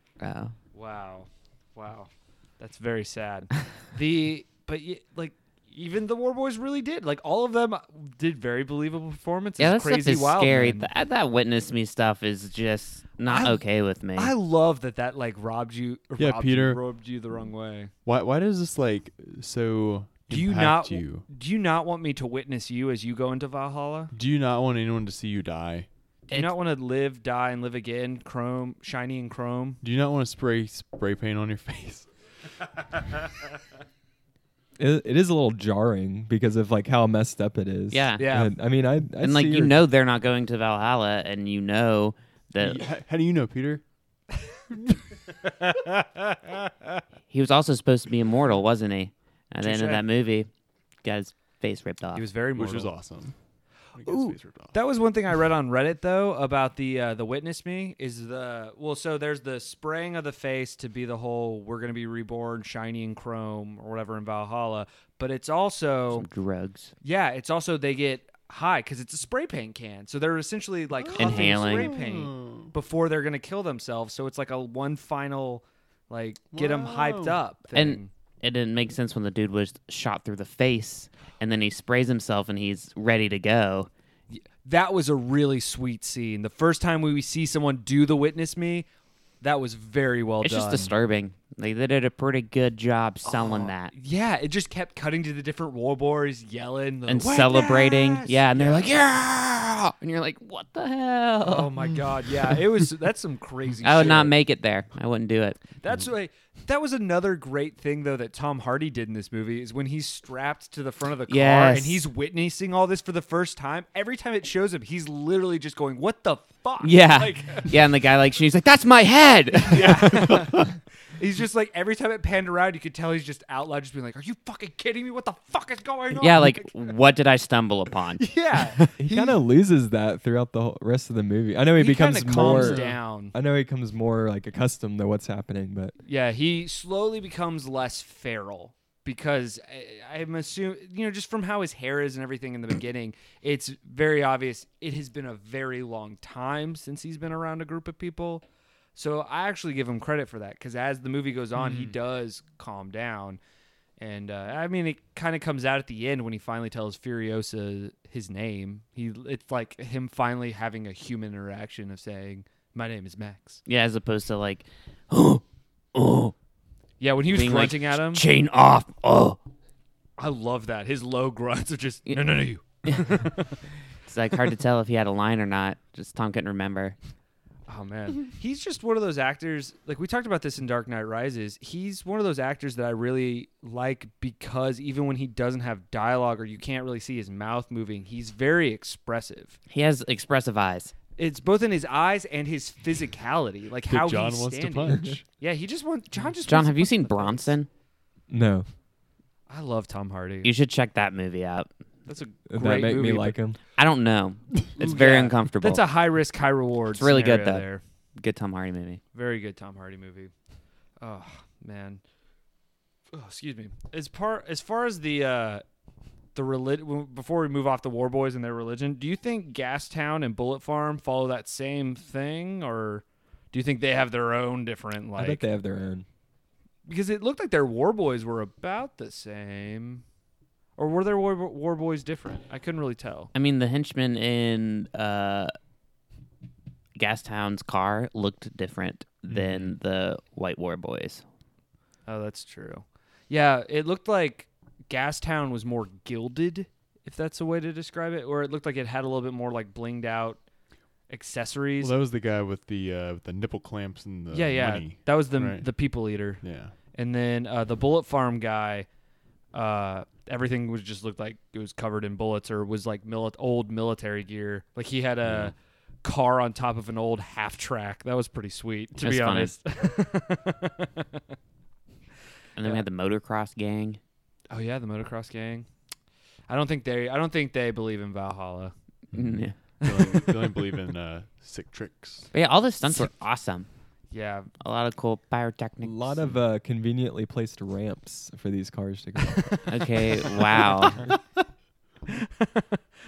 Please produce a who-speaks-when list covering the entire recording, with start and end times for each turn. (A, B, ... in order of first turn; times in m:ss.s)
0:00.2-0:00.6 A
0:00.7-0:10.9 B
0:09.6-0:14.3 A
0:13.3-0:13.6 B
0:14.1-0:17.9 B
0:16.2-0:16.8 C
0:18.0-0:21.3 C
0:20.3-0:24.1 B
0:24.1-0:25.9 C
0:26.3-0:29.8 B
0:29.8-0:32.1 C
0:34.8-0:39.8 D
0:37.9-0:38.3 A
0:38.2-0:38.5 B
0:39.2-0:42.8 A
0:42.6-0:43.8 C
0:45.4-0:47.0 B
0:47.3-0:50.5 A
0:49.6-0:50.0 B
0:51.0-0:52.3 A
0:52.1-0:52.9 B
0:52.6-0:53.3 C
0:54.0-0:54.8 C
0:54.0-1:06.3 B
1:06.1-1:06.9 A
1:07.0-1:18.1 B
1:11.0-1:12.7 C
1:11.2-1:11.9 A
1:16.5-1:17.4 C
1:17.7-1:23.9 A
1:24.3-1:28.9 B
1:29.4-1:30.9 B
1:30.4-1:33.9 A
1:33.2-1:38.8 B
1:37.1-1:41.8 A
1:41.4-1:44.3 B
1:43.8-1:45.6 A
1:45.8-1:57.8 B
1:51.3-1:52.0 A
1:56.8-2:00.5 A
1:59.6-2:06.9 B
2:00.1-2:00.7 C
2:06.2-2:08.9 A
2:08.2-2:09.3 B
2:09.0-2:15.9 D
2:11.7-2:13.3 B
2:12.4-2:13.0 C
2:16.0-2:28.4 B
2:28.9-2:33.4 B
2:34.0-2:43.6 B
2:43.6-2:46.3 A
2:47.0-2:48.2 B
2:47.3-2:49.4 A
2:50.2-2:53.6 B
2:52.1-2:53.3 A
2:54.0-2:57.0 A
2:57.7-3:09.6 B
3:09.7-3:10.9 A
3:11.2-3:17.6 B
3:13.9-3:15.2 C
3:16.4-3:17.7 A
3:18.3-3:18.6 D
3:19.5-3:20.5 B
3:20.4-3:21.7 A
3:22.1-3:23.4 B
3:22.5-3:23.6 D
3:23.8-3:25.8 A
3:24.8-3:27.8 B
3:26.9-3:27.6 A
3:28.2-3:29.0 A
3:29.1-3:30.3 B
3:31.0-3:32.0 B
3:33.1-3:35.6 B
3:36.3-3:45.4 B
3:45.2-3:46.0 D
3:46.9-3:50.0 B
3:50.8-3:53.3 B
3:53.3-3:55.5 A
3:57.0-4:01.2 A
4:02.1-4:10.4 B
4:11.1-4:11.9 B
4:11.8-4:15.7 C
4:14.3-4:18.9 B
4:16.4-4:16.7 C
4:19.5-4:31.2 B
4:25.2-4:25.5 C
4:29.0-4:29.5 A
4:32.6-4:34.0 A
4:34.5-4:35.7 B
4:36.5-4:38.7 B
4:39.1-4:39.6 A
4:39.8-4:40.6 B
4:39.8-4:42.3 C
4:42.3-4:43.7 A
4:44.1-4:44.5 B
4:44.6-4:46.3 A
4:45.8-4:49.6 D
4:49.3-4:51.1 B
4:49.7-4:51.0 A
4:52.1-4:52.8 B